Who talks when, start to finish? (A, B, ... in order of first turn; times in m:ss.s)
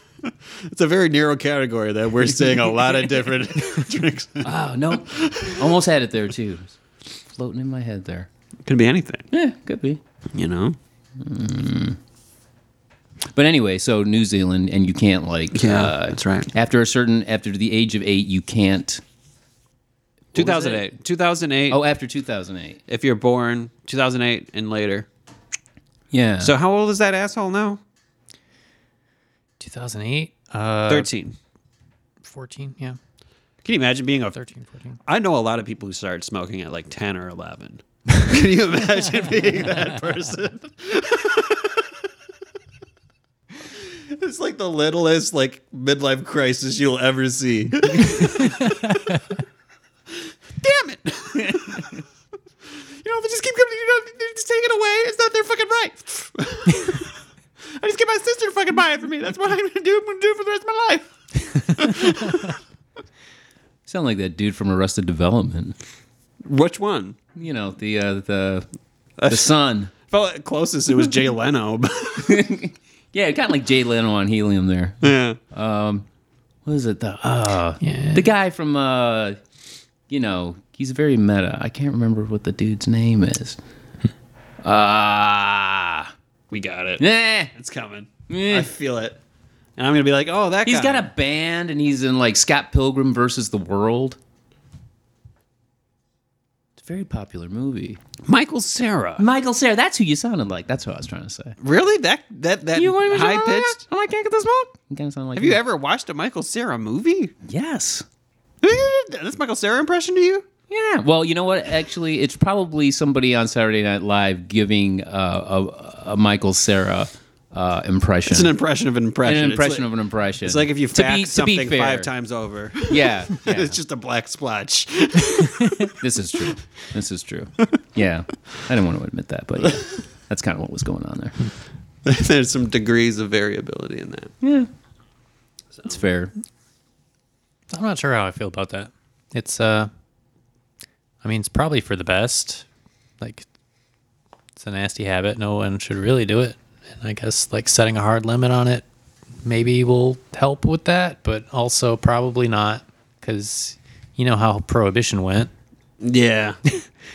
0:00.6-0:04.5 A
0:04.4-0:06.8 B
0:05.0-0:05.7 A
0:07.4-0:08.3 B
0:08.6-0:09.2 A
0:09.3-0:10.0 B
0:10.3-0:10.8 A
0:11.2-0:12.0 B
0:13.2-0:19.0 B
0:15.5-0:16.5 A
0:20.3-0:20.9 B
0:20.3-0:21.8 A
0:21.7-0:22.8 B
0:22.9-0:25.1 A
0:26.1-0:26.5 B
0:26.4-0:27.8 A
0:29.6-0:31.1 C
0:30.9-0:31.4 A
0:32.2-0:33.0 C
0:33.6-0:34.4 A
0:34.3-0:35.0 C
0:35.0-0:41.9 A
0:43.8-0:49.0 A
0:50.6-0:52.0 A
0:53.0-0:57.1 A
0:57.7-1:02.6 A
1:03.8-1:05.8 B
1:06.4-1:07.2 A
1:07.4-1:08.6 B
1:09.2-1:09.6 A
1:09.3-1:09.9 B
1:10.1-1:12.4 A
1:12.2-1:16.0 B
1:15.0-1:15.4 A
1:16.6-1:19.4 B
1:17.8-1:18.2 C
1:20.1-1:23.6 B
1:24.6-1:26.1 B
1:26.5-1:29.2 A
1:27.0-1:27.5 B
1:28.3-1:28.7 B
1:29.8-1:31.0 A
1:30.6-1:34.2 B
1:36.8-1:38.0 B
1:38.2-1:39.2 A
1:39.2-1:41.6 B
1:41.6-1:43.8 A
1:42.7-1:45.6 B
1:45.3-1:47.3 A
1:47.4-1:48.0 B
1:48.6-1:50.4 A
1:50.7-1:58.5 B
1:58.3-1:59.9 A
1:59.2-2:02.1 B
2:00.4-2:05.9 A
2:02.9-2:03.8 B
2:05.9-2:11.5 B
2:12.0-2:14.3 A
2:14.4-2:14.7 B
2:15.8-2:16.3 B
2:17.7-2:19.9 C
2:21.2-2:22.6 C
2:23.2-2:23.4 C
2:24.6-2:28.8 C
2:29.4-2:35.5 C
2:36.0-2:36.6 A